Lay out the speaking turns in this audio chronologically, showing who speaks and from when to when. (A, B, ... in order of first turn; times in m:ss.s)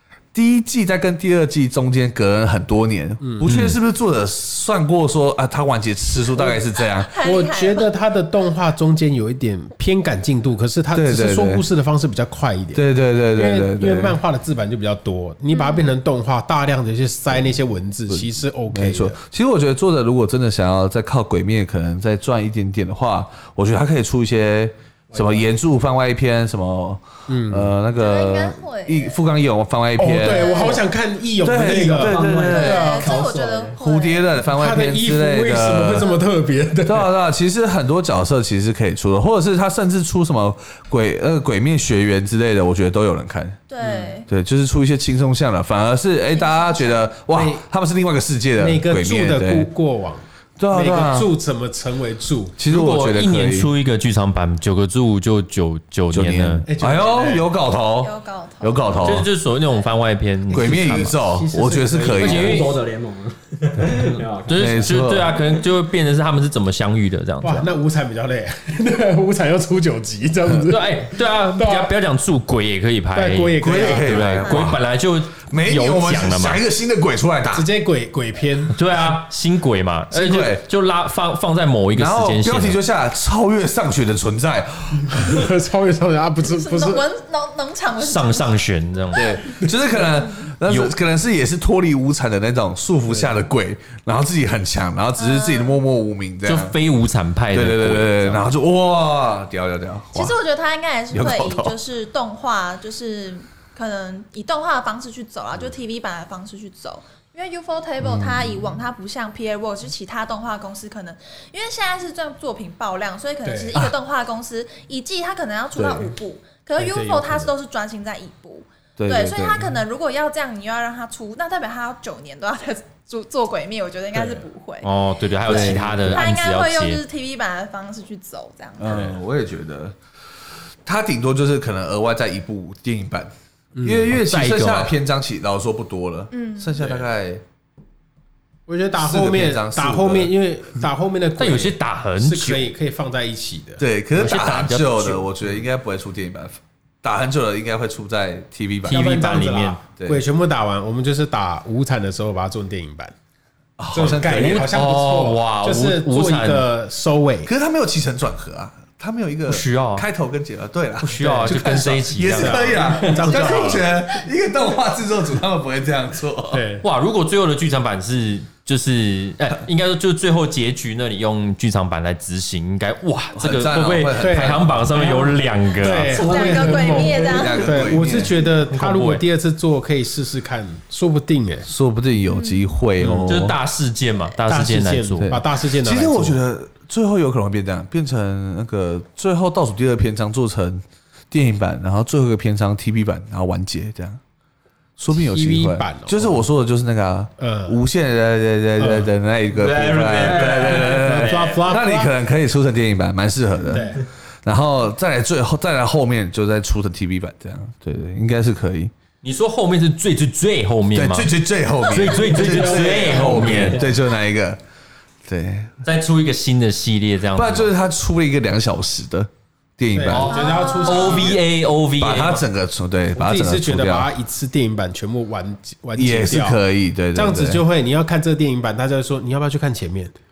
0:00.3-0:07.1 A
0:03.2-0:03.5 B
0:03.4-0:03.7 C
0:07.0-0:07.9 D
0:07.2-0:12.8 B
0:10.9-0:11.6 A
0:12.7-0:14.2 A
0:13.4-0:19.2 B
0:15.5-0:15.9 D
0:18.1-0:30.8 A
0:25.2-0:25.4 B
0:27.3-0:27.7 B
0:27.9-0:29.2 D
0:30.0-0:33.1 B
0:30.2-0:30.9 D
0:31.4-0:32.9 A
0:31.5-0:33.8 E
0:32.4-0:34.4 D
0:33.8-0:36.1 A
0:34.5-0:37.1 B
0:36.9-0:43.6 A
0:43.7-0:44.3 D
0:43.8-0:44.1 B
0:44.3-0:49.7 A
0:46.3-0:47.1 D
0:47.3-0:47.6 B
0:48.6-0:52.6 B
0:50.6-0:51.3 A
0:52.6-0:53.7 A
0:52.7-0:56.6 C
0:56.1-0:59.3 A
0:56.7-0:57.5 B
0:58.0-0:59.2 D
0:59.0-1:01.1 C
1:00.5-1:02.6 A
1:00.6-1:02.7 B
1:02.1-1:04.8 E
1:02.2-1:02.7 C
1:04.5-1:07.7 C
1:04.5-1:05.4 A
1:07.4-1:11.9 B
1:10.6-1:16.6 C
1:13.2-1:14.3 B
1:13.6-1:14.8 A
1:14.4-1:14.8 D
1:15.5-1:17.7 A
1:17.5-1:18.8 B
1:18.7-1:22.8 C
1:20.1-1:20.6 A
1:21.9-1:25.5 A
1:25.1-1:27.0 B
1:26.4-1:28.6 D
1:28.0-1:29.4 C
1:29.1-1:29.4 D
1:29.1-1:36.7 A
1:30.6-1:30.9 C
1:35.2-1:35.8 D
1:36.4-1:38.5 C
1:37.5-1:40.4 A
1:40.2-2:04.9 D
1:41.1-1:41.8 A
1:48.0-1:48.8 A
1:53.4-1:53.8 B
1:55.7-1:56.1 A
1:56.8-1:57.5 B
1:59.0-1:59.7 A
2:04.8-2:07.0 C
2:05.4-2:06.2 A
2:05.5-2:09.0 D
2:08.8-2:10.0 A
2:10.8-2:13.3 A
2:13.7-2:14.9 B
2:13.8-2:17.4 A
2:14.2-2:14.7 C
2:16.3-2:16.8 D
2:18.7-2:23.8 B
2:19.0-2:20.3 A
2:21.4-2:22.7 C
2:23.8-2:29.2 A
2:24.1-2:25.2 C
2:28.9-2:29.8 C
2:28.9-2:33.1 B
2:30.0-2:30.2 A
2:33.8-2:34.7 A
2:33.9-2:37.5 B
2:34.3-2:36.7 C
2:37.4-2:46.6 A
2:39.5-2:40.1 C
2:41.0-2:43.5 C
2:41.2-2:43.9 B
2:46.5-2:46.8 B
2:46.8-2:56.3 C
2:53.4-2:55.1 A
2:54.2-2:55.1 B
2:55.8-3:01.7 B
2:56.1-2:57.2 E
2:56.2-2:57.7 D
2:57.1-2:58.4 A
2:58.7-2:59.2 C
3:01.7-3:03.6 A
3:02.3-3:02.7 D
3:03.0-3:03.4 B
3:03.3-3:05.3 C
3:04.5-3:06.4 B
3:05.2-3:14.2 A
3:15.0-3:28.9 A
3:15.1-3:16.4 B
3:17.4-3:17.8 B
3:18.8-3:19.1 B
3:19.6-3:21.6 C
3:20.1-3:21.0 E
3:20.6-3:22.2 B
3:23.7-3:24.0 B
3:29.2-3:31.3 C
3:30.9-3:34.6 A
3:31.8-3:33.8 C
3:32.5-3:33.7 E
3:32.9-3:33.6 B
3:35.3-3:35.7 A
3:35.8-3:37.7 C
3:37.3-3:40.4 A
3:39.9-3:41.4 B
3:40.1-3:42.4 C
3:40.3-3:41.4 D
3:42.0-3:44.1 A
3:43.1-3:46.6 B
3:46.0-3:47.6 A
3:47.1-3:50.1 B